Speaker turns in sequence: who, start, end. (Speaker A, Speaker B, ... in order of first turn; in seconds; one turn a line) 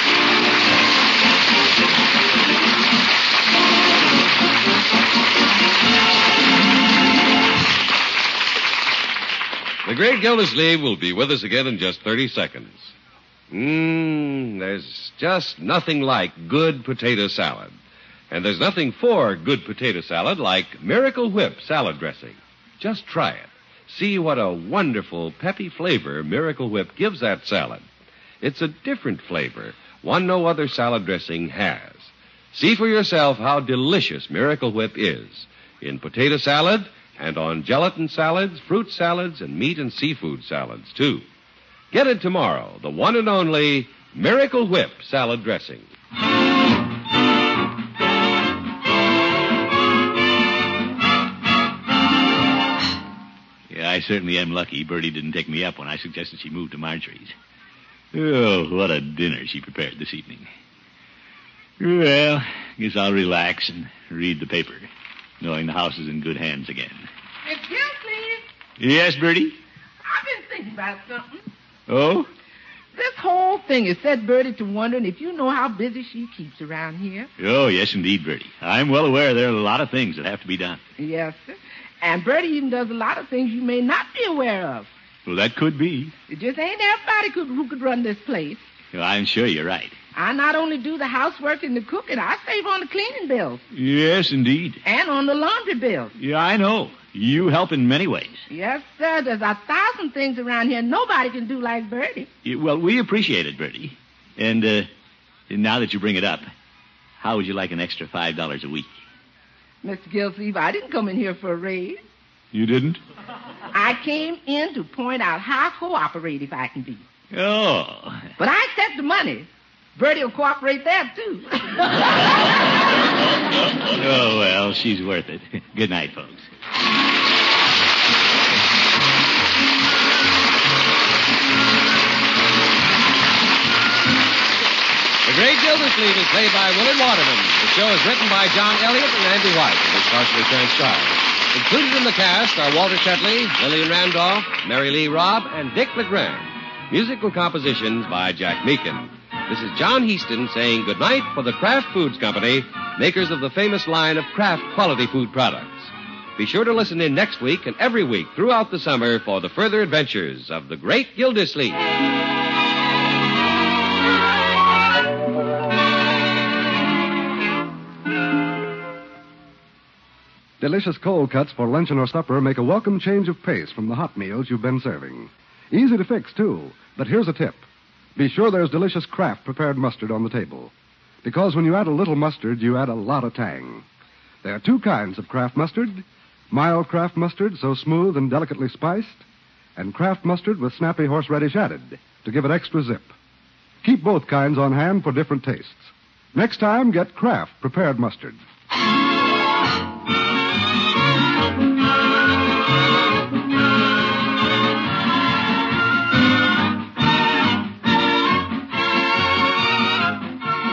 Speaker A: 9.8-12.9
Speaker A: 13.5-17.8
Speaker A: 18.3-27.8
Speaker A: 28.4-41.2
Speaker A: 41.9-45.9
Speaker B: 53.7-57.3
Speaker B: 58.1-60.5
Speaker B: 61.8-64.9
Speaker B: 65.4-67.1
Speaker C: 67.4-68.4
Speaker B: 68.8-69.6
Speaker C: 70.0-71.5
Speaker B: 71.9-72.3
Speaker C: 72.9-77.3
Speaker B: 77.4-80.8
Speaker C: 81.0-84.9
Speaker B: 85.2-86.1
Speaker C: 86.3-88.6
Speaker B: 88.9-89.9
Speaker C: 90.1-93.6
Speaker B: 93.7-94.8
Speaker C: 94.8-96.1
Speaker B: 96.2-98.4
Speaker C: 98.5-102.3
Speaker B: 102.4-104.9
Speaker B: 105.5-106.5
Speaker B: 107.2-108.9
Speaker C: 109.8-112.0
Speaker B: 112.5-113.0
Speaker C: 113.7-117.0
Speaker B: 117.3-118.3
Speaker C: 118.4-122.1
Speaker B: 123.8-126.5
Speaker A: 135.2-161.8
Speaker D: 170.6-177.6
Speaker D: 178.2-180.7
Speaker D: 181.2-183.8
Speaker D: 184.4-189.2
Speaker D: 189.8-193.1
Speaker D: 193.8-198.4